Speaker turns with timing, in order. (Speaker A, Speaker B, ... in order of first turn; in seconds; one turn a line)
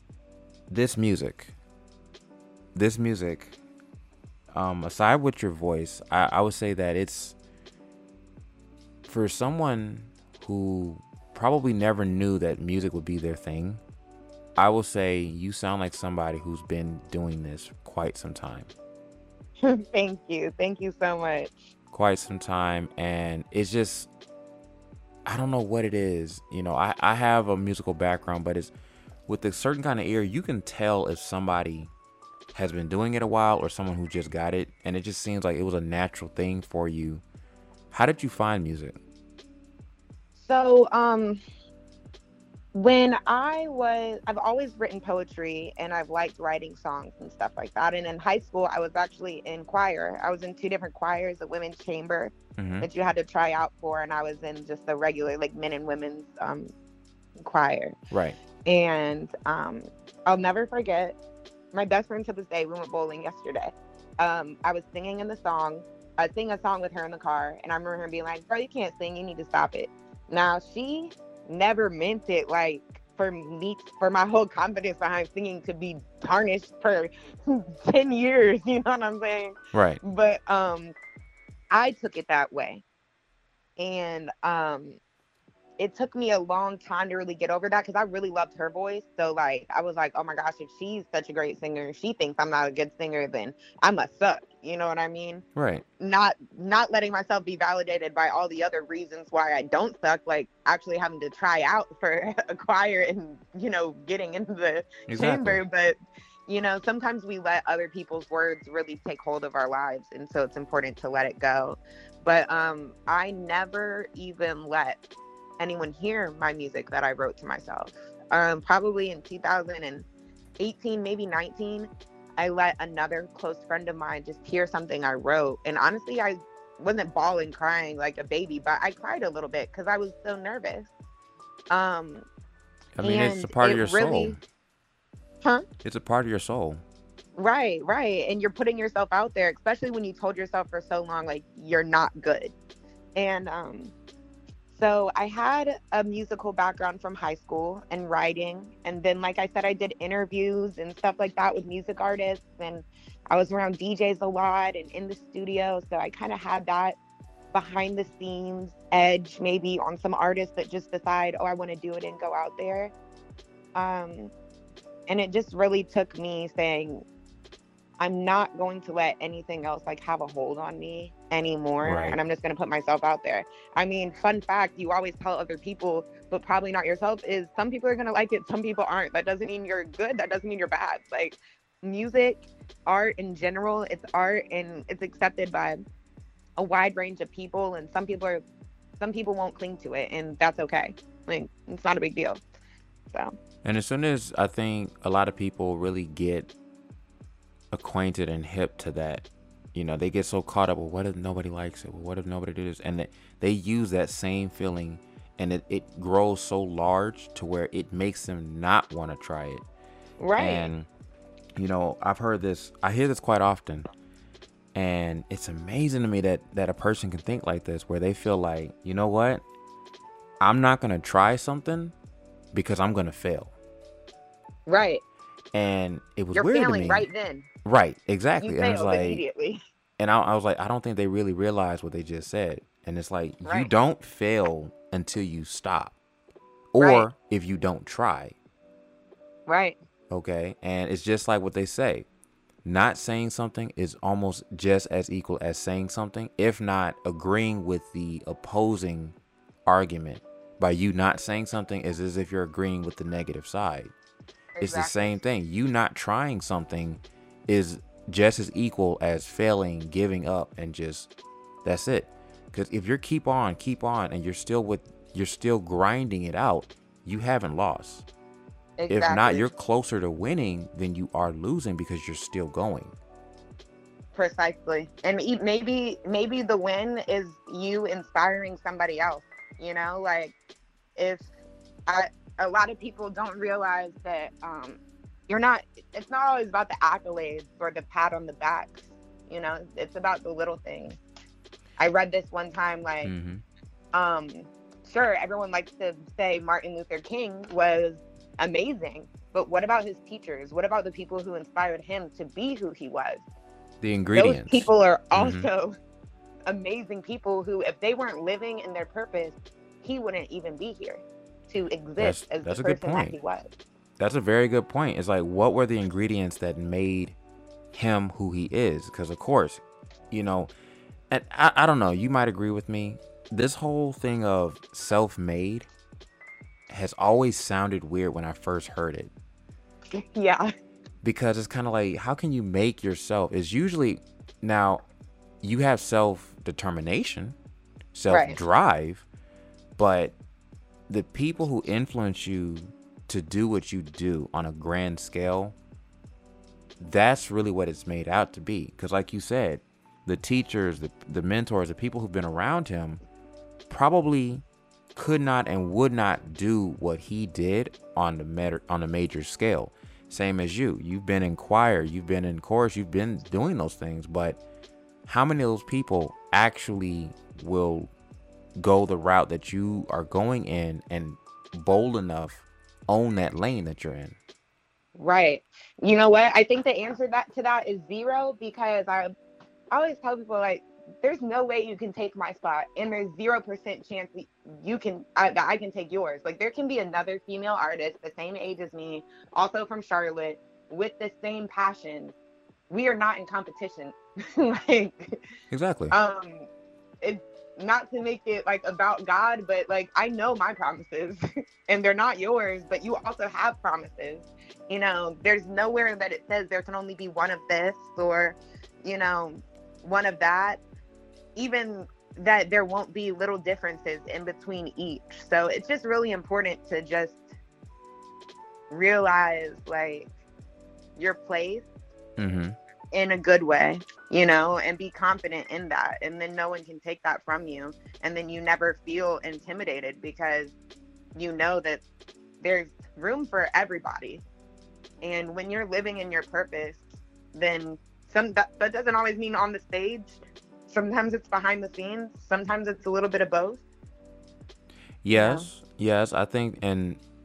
Speaker A: 0.7-1.5
Speaker A: 2.7-3.5
Speaker A: 4.5-7.3
Speaker A: 9.1-13.8
Speaker A: 14.6-18.7
Speaker B: 19.6-21.7
Speaker A: 21.9-24.1
Speaker A: 25.2-28.7
Speaker A: 29.3-31.9
Speaker A: 32.5-37.2
Speaker A: 37.9-39.0
Speaker B: 40.4-41.4
Speaker B: 42.7-56.7
Speaker A: 52.6-52.9
Speaker B: 57.4-57.9
Speaker A: 58.1-58.4
Speaker B: 58.6-61.1
Speaker B: 61.7-80.9
Speaker A: 79.7-80.0
Speaker B: 81.7-82.8
Speaker B: 83.8-85.0
Speaker B: 85.8-95.4
Speaker A: 95.5-95.8
Speaker B: 96.0-105.9
Speaker A: 105.1-105.6
Speaker B: 106.5-115.0
Speaker B: 115.6-120.0
Speaker B: 120.6-130.9
Speaker B: 131.7-132.2
Speaker A: 132.9-134.4
Speaker B: 133.0-134.4
Speaker A: 135.8-136.8
Speaker B: 137.4-142.5
Speaker B: 143.2-143.9
Speaker B: 144.7-156.9
Speaker B: 157.5-162.9
Speaker B: 163.8-164.3
Speaker B: 165.1-167.0
Speaker B: 168.0-185.8
Speaker A: 171.8-172.2
Speaker B: 186.6-188.4
Speaker B: 189.0-192.4
Speaker A: 193.6-196.5
Speaker A: 197.7-209.6
Speaker B: 210.2-210.7
Speaker A: 210.4-210.9
Speaker A: 211.6-213.9
Speaker A: 214.7-219.4
Speaker A: 220.4-221.9
Speaker A: 222.5-223.5
Speaker B: 224.7-225.0
Speaker A: 225.5-227.1
Speaker B: 226.3-227.4
Speaker A: 227.6-229.2
Speaker B: 228.4-229.6
Speaker A: 230.0-235.9
Speaker B: 233.4-233.7
Speaker A: 236.7-238.3
Speaker B: 236.8-237.1
Speaker B: 239.5-239.8
Speaker A: 240.1-242.1
Speaker A: 242.6-253.9
Speaker B: 254.6-255.2
Speaker A: 254.6-261.1
Speaker A: 261.6-268.1
Speaker B: 268.8-269.5
Speaker A: 268.9-272.9
Speaker B: 274.1-280.3
Speaker B: 281.0-281.3
Speaker B: 281.9-291.0
Speaker B: 291.8-293.1
Speaker A: 293.0-293.4
Speaker B: 293.9-303.2
Speaker A: 303.8-305.5
Speaker B: 304.1-305.8
Speaker B: 306.5-313.5
Speaker A: 312.0-313.1
Speaker A: 314.0-317.1
Speaker A: 317.7-320.5
Speaker A: 321.1-325.7
Speaker A: 326.7-329.1
Speaker B: 329.9-330.5
Speaker A: 331.0-334.8
Speaker A: 335.4-337.4
Speaker A: 337.9-339.0
Speaker B: 338.1-338.4
Speaker A: 339.8-340.1
Speaker A: 340.9-345.5
Speaker A: 346.8-353.0
Speaker A: 353.7-354.4
Speaker A: 354.9-364.4
Speaker A: 365.1-367.9
Speaker A: 368.6-374.2
Speaker B: 375.0-379.1
Speaker B: 379.7-392.1
Speaker B: 392.7-395.2
Speaker A: 395.5-395.9
Speaker B: 395.9-396.5
Speaker B: 397.0-410.6
Speaker B: 411.4-417.3
Speaker B: 418.7-420.1
Speaker B: 421.0-421.6
Speaker A: 422.2-422.6
Speaker B: 422.9-430.5
Speaker B: 431.1-431.8
Speaker B: 432.4-434.2
Speaker B: 435.0-440.2
Speaker B: 440.7-443.6
Speaker A: 445.0-447.0
Speaker B: 445.1-445.5